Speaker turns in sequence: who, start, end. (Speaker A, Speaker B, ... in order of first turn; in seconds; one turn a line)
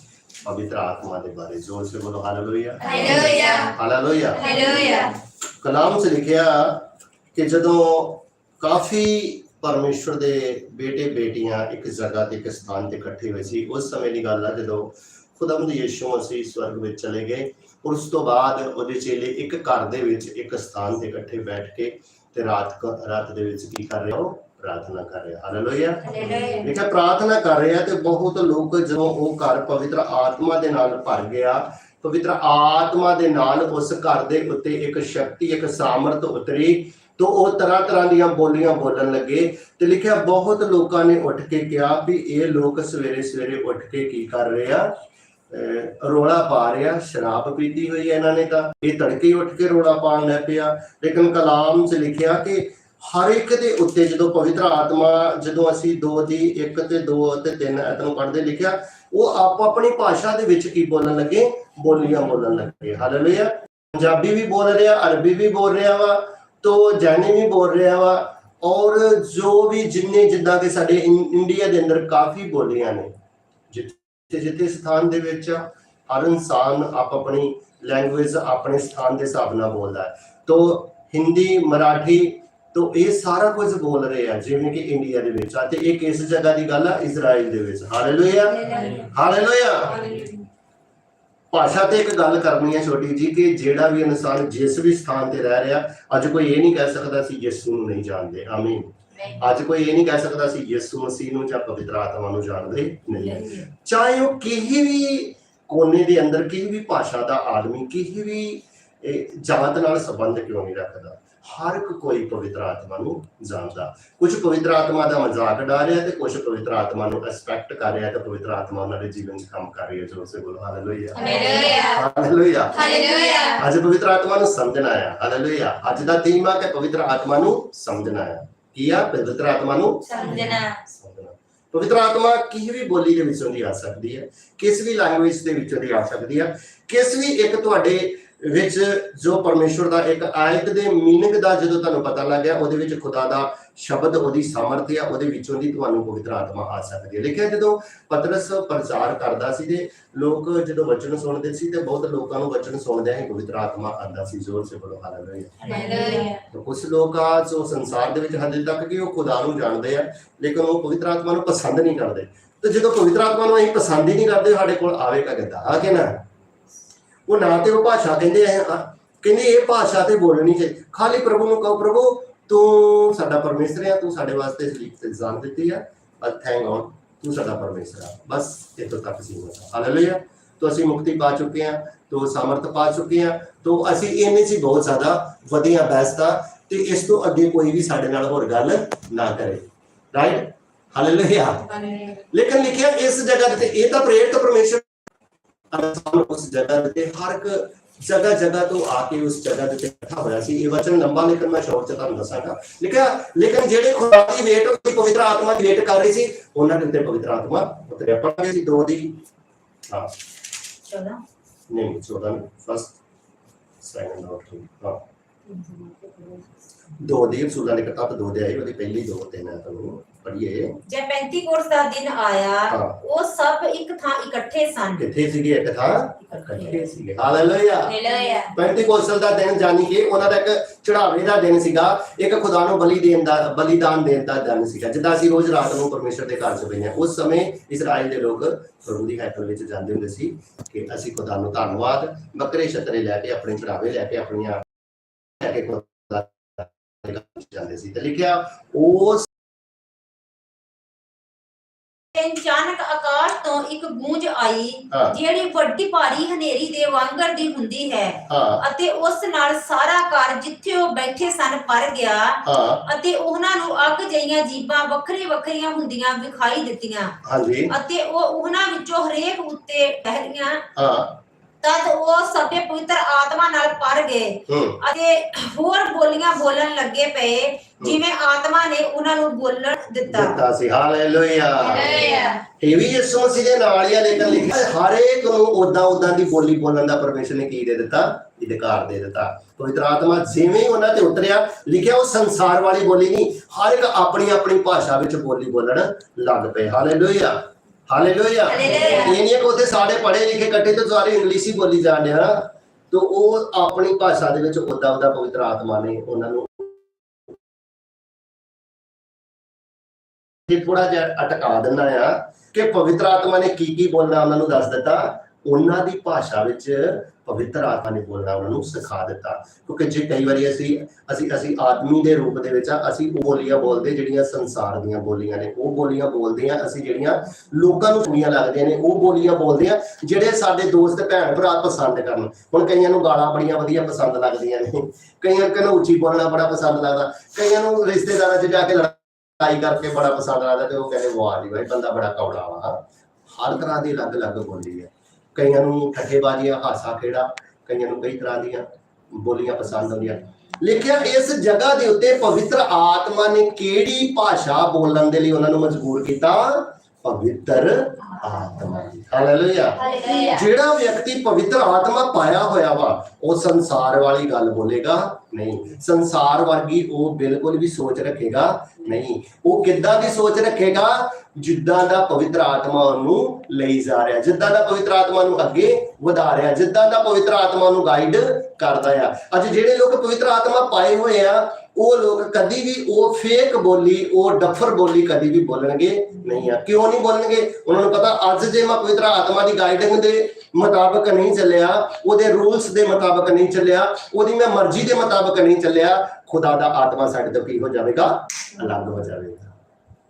Speaker A: 0.4-4.4
Speaker B: 2.8-3.7
Speaker B: 4.4-5.1
Speaker A: 5.6-44.9
Speaker B: 26.2-26.5
Speaker A: 45.5-73.1
Speaker A: 73.7-90.2
Speaker A: 91.5-122.8
Speaker B: 121.2-122.0
Speaker B: 122.7-123.6
Speaker A: 123.6-130.3
Speaker B: 130.1-130.8
Speaker A: 130.9-155.7
Speaker B: 155.7-156.4
Speaker A: 156.5-166.2
Speaker A: 167.3-194.8
Speaker A: 195.7-209.2
Speaker A: 209.9-210.1
Speaker C: 210.8-211.2
Speaker A: 211.7-213.0
Speaker A: 213.8-215.0
Speaker C: 215.5-216.4
Speaker A: 217.0-220.8
Speaker C: 220.9-225.1
Speaker A: 222.7-223.0
Speaker A: 225.0-227.9
Speaker B: 227.8-228.5
Speaker A: 228.5-244.6
Speaker A: 245.4-249.3
Speaker C: 252.1-267.1
Speaker A: 254.9-255.2
Speaker A: 258.3-258.6
Speaker A: 262.4-262.8
Speaker A: 267.2-267.7
Speaker C: 267.7-270.6
Speaker A: 270.8-271.1
Speaker C: 271.6-280.4
Speaker A: 274.5-274.8
Speaker A: 280.1-282.0
Speaker B: 281.6-282.4
Speaker A: 282.6-306.7
Speaker B: 298.5-299.1
Speaker A: 310.5-342.8
Speaker A: 343.3-399.5
Speaker B: 359.8-360.4